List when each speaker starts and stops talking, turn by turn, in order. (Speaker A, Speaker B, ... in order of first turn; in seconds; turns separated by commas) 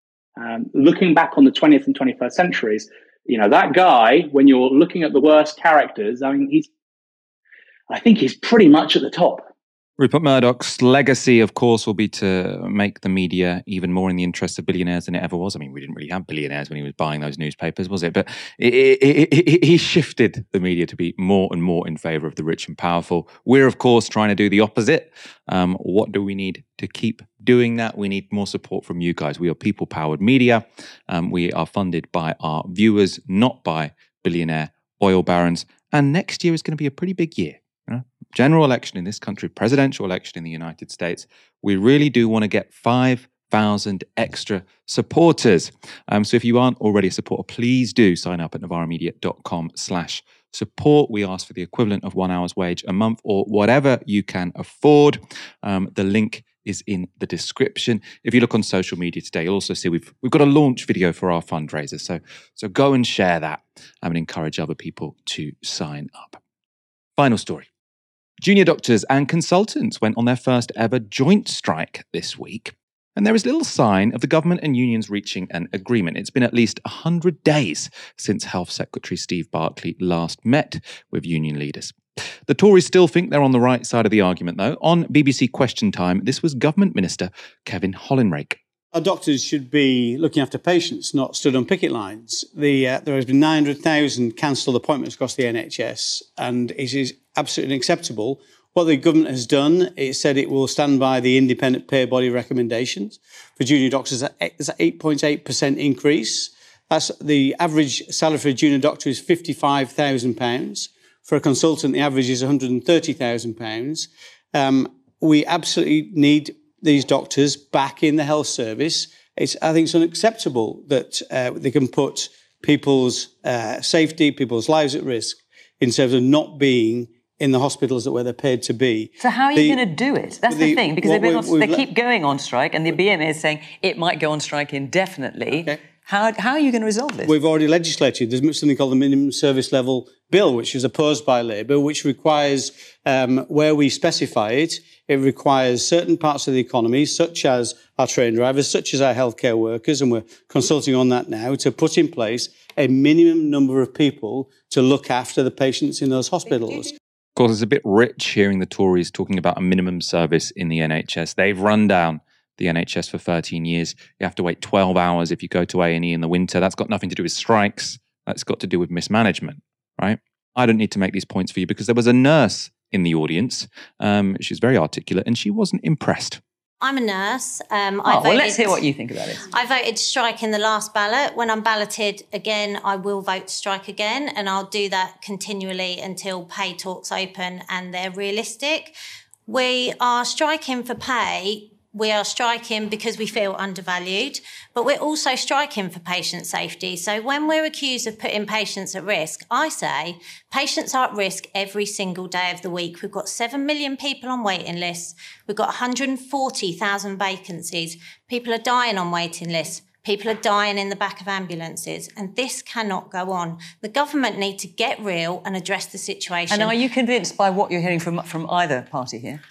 Speaker A: 0.4-6.7, Speaker A: 7.9-9.5, Speaker B: 10.0-66.4, Speaker B: 67.2-67.7, Speaker B: 68.4-82.0, Speaker B: 82.5-88.6, Speaker C: 88.9-129.8, Speaker D: 129.2-137.3, Speaker C: 130.5-131.9, Speaker C: 135.5-135.8, Speaker C: 137.2-156.9, Speaker B: 157.4-176.4, Speaker E: 176.8-178.8, Speaker D: 178.1-179.5, Speaker E: 179.5-188.9, Speaker E: 189.5-216.8, Speaker D: 216.5-219.4